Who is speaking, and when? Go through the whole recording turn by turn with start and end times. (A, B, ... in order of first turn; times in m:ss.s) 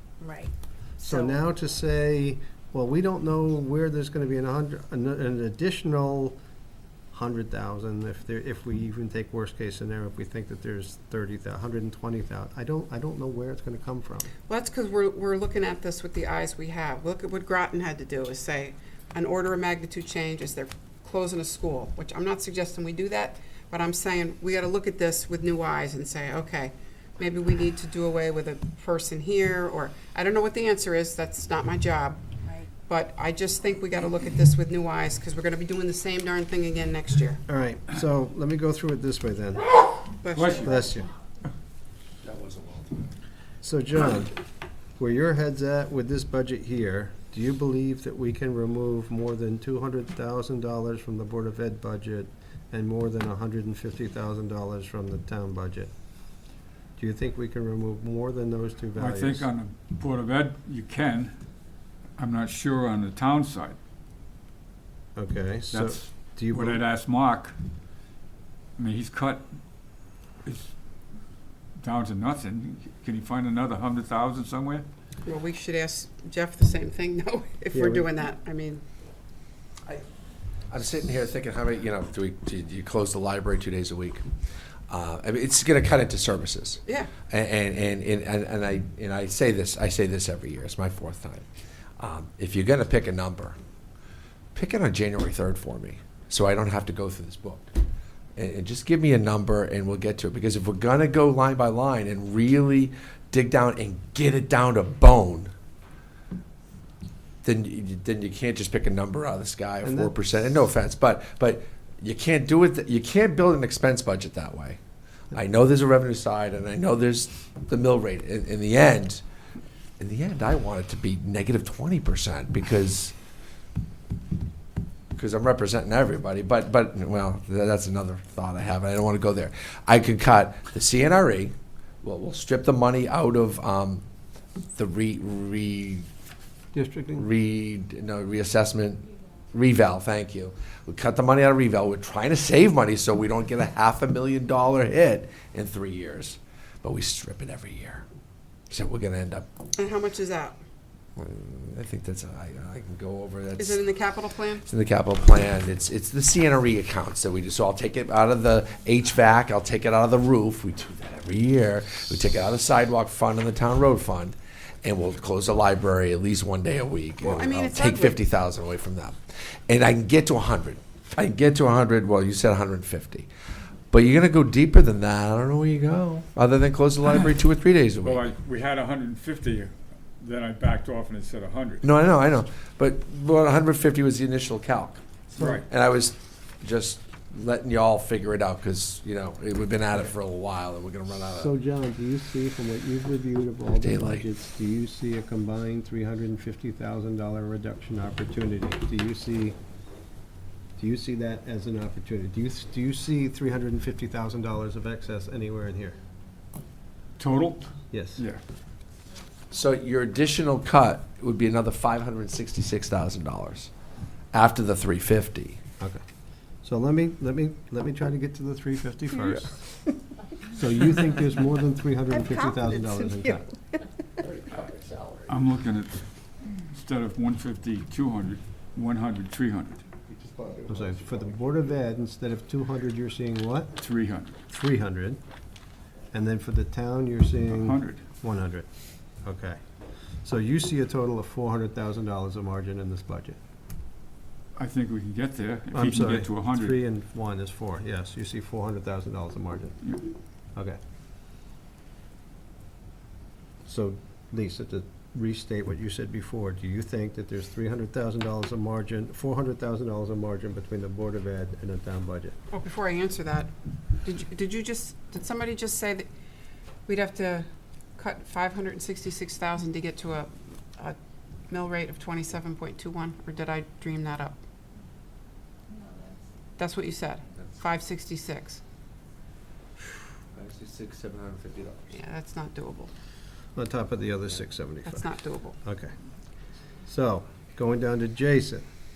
0:00.2-0:01.4 A
0:01.0-0:06.4 B
0:07.1-0:14.3 B
0:14.5-0:37.4 A
0:37.5-0:40.0 B
0:40.2-0:40.9 A
0:40.4-0:40.8 C
0:40.6-0:41.1 B
0:42.2-0:43.1 D
0:43.6-0:44.3 B
0:45.0-0:55.9 B
0:57.0-0:59.5 B
0:59.0-1:01.3 C
1:02.2-1:03.8 C
1:05.2-1:06.8 B
1:05.7-1:07.5 C
1:08.8-1:09.4 C
1:10.4-1:10.8 C
1:11.8-1:14.8 C
1:15.2-1:18.8 A
1:17.7-1:18.1 B
1:20.7-1:24.2 D
1:24.9-1:31.4 D
1:26.9-1:27.1 A
1:32.0-1:33.6 D
1:34.6-1:37.8 D
1:38.4-1:45.5 D
1:47.4-1:54.8 D
1:49.8-1:50.1 B
1:55.3-1:59.2 D
2:00.0-2:03.1 D
2:05.2-2:14.0 D
2:14.8-2:16.1 D
2:16.7-2:17.3 B
2:17.2-2:28.0 D
2:28.7-2:29.5 D
2:29.8-2:30.6 A
2:31.2-2:33.8 D
2:33.6-2:34.6 A
2:34.6-2:49.2 D
2:47.2-2:48.2 A
2:49.7-2:53.3 D
2:53.9-2:58.3 D
2:58.0-3:01.8 C
3:01.8-3:11.5 D
3:05.4-3:05.6 C
3:11.3-3:19.6 B
3:13.7-3:14.3 D
3:20.8-3:26.0 B
3:27.2-3:28.4 C
3:27.9-3:28.2 B
3:29.5-3:33.7 D
3:34.3-3:35.6 D
3:36.6-3:39.7 B
3:40.5-3:43.4 B
3:44.2-3:45.4 D
3:45.3-3:46.0 C
3:46.6-3:49.8 C
3:50.1-3:51.4 D
3:50.7-3:53.7 B
3:53.8-3:54.3 C
3:54.5-3:55.2 B
3:56.1-3:58.7 B
3:57.5-3:58.0 C
3:59.2-3:59.6 B
4:00.2-4:03.4 B
4:04.6-4:06.8 C
4:05.7-4:09.8 B
4:13.7-4:22.4 B
4:22.5-4:23.5 A
4:24.0-4:26.1 A
4:26.9-4:31.0 A
4:31.5-4:34.4 A
4:36.6-4:38.6 A
4:40.3-4:41.9 D
4:41.9-4:42.9 A
4:43.6-4:45.1 B
4:44.8-4:45.6 A
4:45.6-4:45.9 B
4:46.9-4:48.6 B